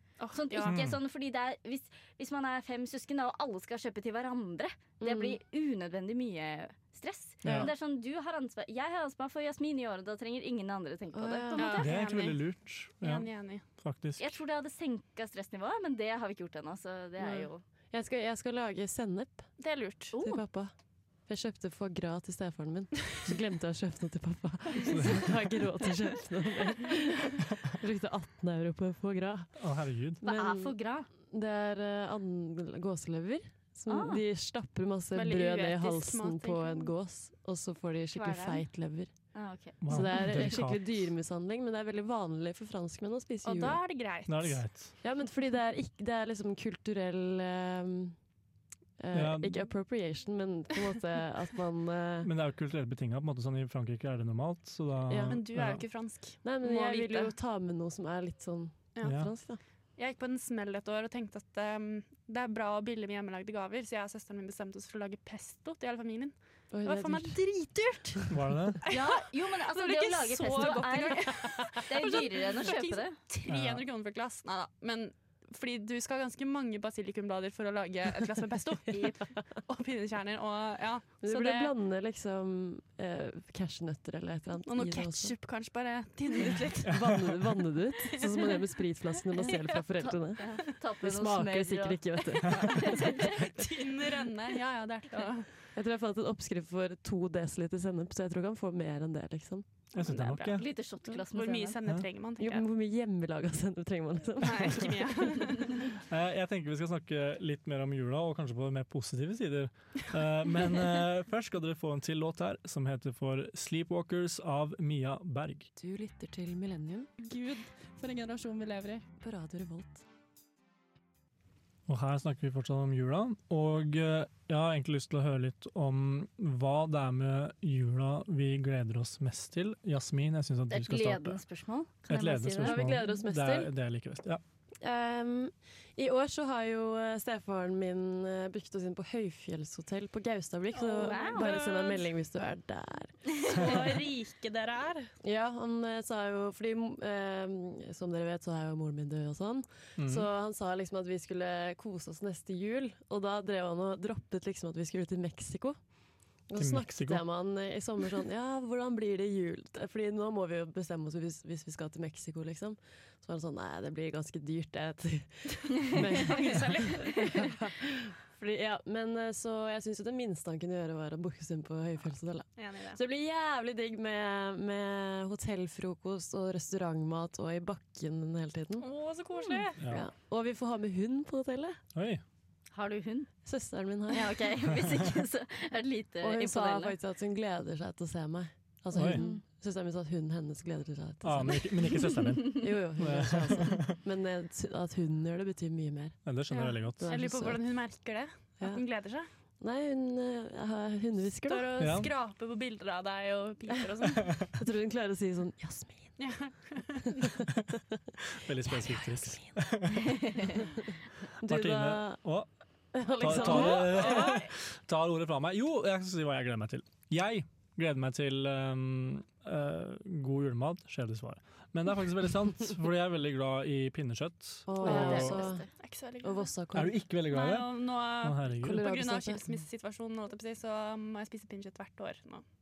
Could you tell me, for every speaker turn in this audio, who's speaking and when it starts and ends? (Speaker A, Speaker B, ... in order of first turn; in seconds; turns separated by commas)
Speaker A: 0.2-0.7, Speaker B: 0.3-11.9, Speaker C: 0.6-1.0, Speaker D: 5.0-5.4, Speaker C: 7.4-7.7, Speaker D: 11.1-11.8, Speaker A: 11.6-12.4, Speaker C: 11.8-14.4, Speaker A: 13.0-13.6, Speaker B: 14.2-17.6, Speaker D: 17.2-19.5, Speaker A: 19.6-20.1, Speaker B: 20.1-20.4, Speaker D: 20.2-20.7, Speaker D: 21.3-29.5, Speaker C: 24.9-25.3, Speaker C: 29.6-30.2, Speaker D: 30.2-39.1, Speaker B: 30.2-31.1, Speaker B: 33.9-34.2, Speaker A: 35.1-36.9, Speaker A: 38.1-38.6, Speaker B: 39.3-40.5, Speaker C: 39.8-40.9, Speaker D: 39.8-43.8, Speaker A: 43.4-44.6, Speaker C: 44.2-44.9, Speaker D: 45.0-48.2, Speaker D: 49.0-52.3, Speaker C: 49.1-49.6, Speaker C: 52.2-55.8, Speaker D: 55.1-55.4, Speaker A: 55.3-57.3, Speaker D: 56.4-59.6, Speaker A: 59.0-59.2, Speaker C: 59.0-59.3, Speaker A: 60.0-68.3, Speaker D: 66.7-68.3, Speaker C: 68.3-68.8, Speaker A: 68.8-81.7, Speaker B: 68.9-73.2, Speaker C: 73.5-73.8, Speaker D: 81.2-85.3, Speaker A: 84.7-87.2, Speaker D: 86.5-93.3, Speaker A: 88.2-88.6, Speaker A: 89.5-89.8, Speaker B: 90.0-93.3, Speaker A: 92.8-95.5, Speaker D: 95.7-99.7, Speaker C: 99.9-100.7, Speaker B: 100.0-101.8, Speaker A: 100.1-100.5, Speaker A: 101.1-102.7, Speaker D: 102.4-105.5, Speaker A: 104.4-105.9, Speaker C: 106.1-115.7, Speaker D: 115.8-117.1, Speaker A: 117.2-119.0, Speaker D: 119.2-120.0, Speaker C: 121.9-131.4, Speaker B: 130.7-132.9, Speaker C: 132.1-134.4, Speaker D: 132.6-133.7, Speaker D: 134.8-143.8, Speaker A: 140.7-142.0, Speaker B: 140.9-141.5, Speaker A: 143.3-145.1, Speaker D: 145.2-155.8, Speaker C: 150.0-150.3, Speaker D: 156.4-178.9, Speaker C: 156.6-157.2, Speaker A: 166.0-167.4, Speaker A: 172.6-173.0, Speaker A: 178.8-179.8, Speaker C: 179.8-180.1, Speaker D: 179.8-181.8, Speaker C: 181.9-182.2, Speaker B: 182.7-183.3, Speaker D: 183.4-184.5, Speaker B: 184.1-186.9, Speaker D: 186.2-196.2, Speaker C: 188.9-189.2, Speaker B: 189.1-189.4, Speaker C: 191.2-194.0, Speaker C: 196.2-197.2, Speaker A: 196.5-199.3, Speaker D: 197.0-197.7, Speaker D: 199.6-201.7, Speaker A: 201.4-204.3, Speaker C: 201.8-202.1, Speaker D: 204.6-206.1, Speaker A: 206.2-207.3, Speaker D: 207.2-208.0, Speaker C: 208.3-210.6, Speaker D: 208.6-209.6, Speaker B: 210.2-210.6, Speaker D: 211.4-212.2, Speaker C: 211.4-212.5, Speaker D: 212.9-214.3, Speaker C: 213.2-225.4, Speaker A: 213.2-214.5, Speaker D: 224.7-225.7, Speaker B: 224.8-225.7, Speaker A: 224.8-226.5, Speaker D: 226.2-227.0, Speaker C: 226.7-228.8, Speaker A: 227.3-232.4, Speaker D: 228.6-229.4